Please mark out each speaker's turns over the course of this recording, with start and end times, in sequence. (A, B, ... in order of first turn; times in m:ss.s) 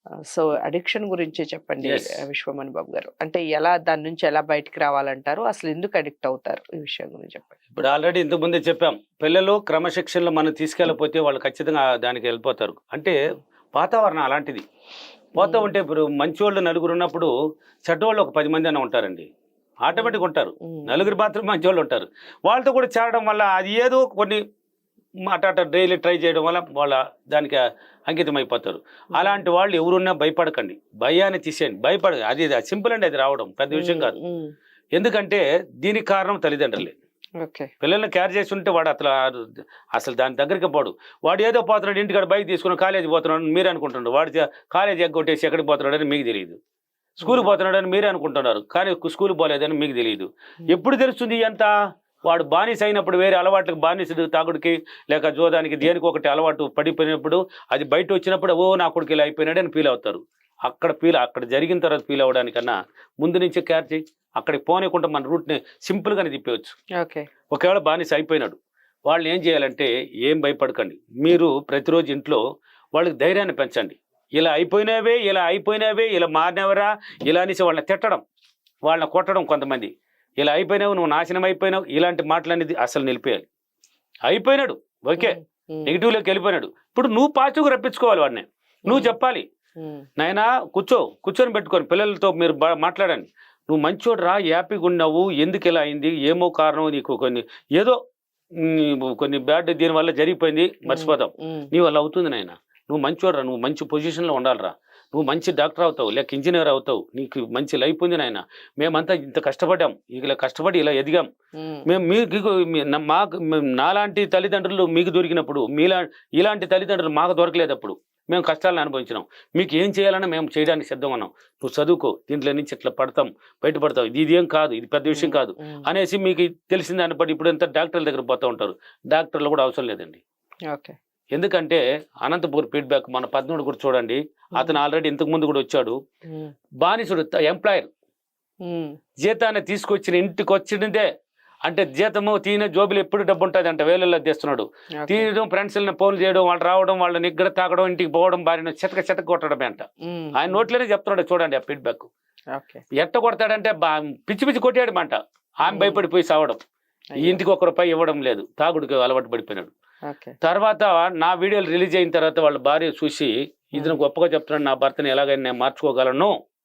0:00.3-0:07.5 A
0:01.8-0:02.2 B
0:07.7-0:13.2 B
0:13.7-0:14.6 B
0:15.3-0:17.3 B
0:15.4-0:15.7 A
0:17.8-0:19.3 B
0:19.8-0:24.4 B
0:19.9-0:21.1 A
0:25.3-0:34.1 B
0:33.7-0:34.5 A
0:34.9-0:36.9 B
0:37.4-0:37.7 A
0:37.8-0:46.6 B
0:47.2-0:51.7 B
0:47.2-0:47.5 A
0:52.3-1:06.8 B
1:07.0-1:07.3 A
1:07.5-1:12.4 B
1:12.9-1:18.2 B
1:18.8-1:23.4 B
1:24.3-1:29.4 B
1:25.2-1:25.9 A
1:28.9-1:29.1 A
1:29.8-1:30.0 A
1:30.2-1:38.0 B
1:38.6-1:51.3 B
1:40.9-1:41.7 A
1:51.6-1:51.9 A
1:51.8-2:10.2 B
2:05.1-2:05.8 A
2:10.7-2:11.0 A
2:11.3-2:16.0 B
2:16.8-2:17.9 B
2:18.6-2:19.0 A
2:19.2-2:21.1 B
2:21.6-2:32.1 B
2:25.0-2:25.3 A
2:30.0-2:30.6 A
2:32.5-2:32.8 A
2:33.0-2:36.6 B
2:35.7-2:36.0 A
2:37.1-2:37.4 A
2:37.2-2:39.7 B
2:40.1-2:40.4 A
2:40.4-2:46.3 B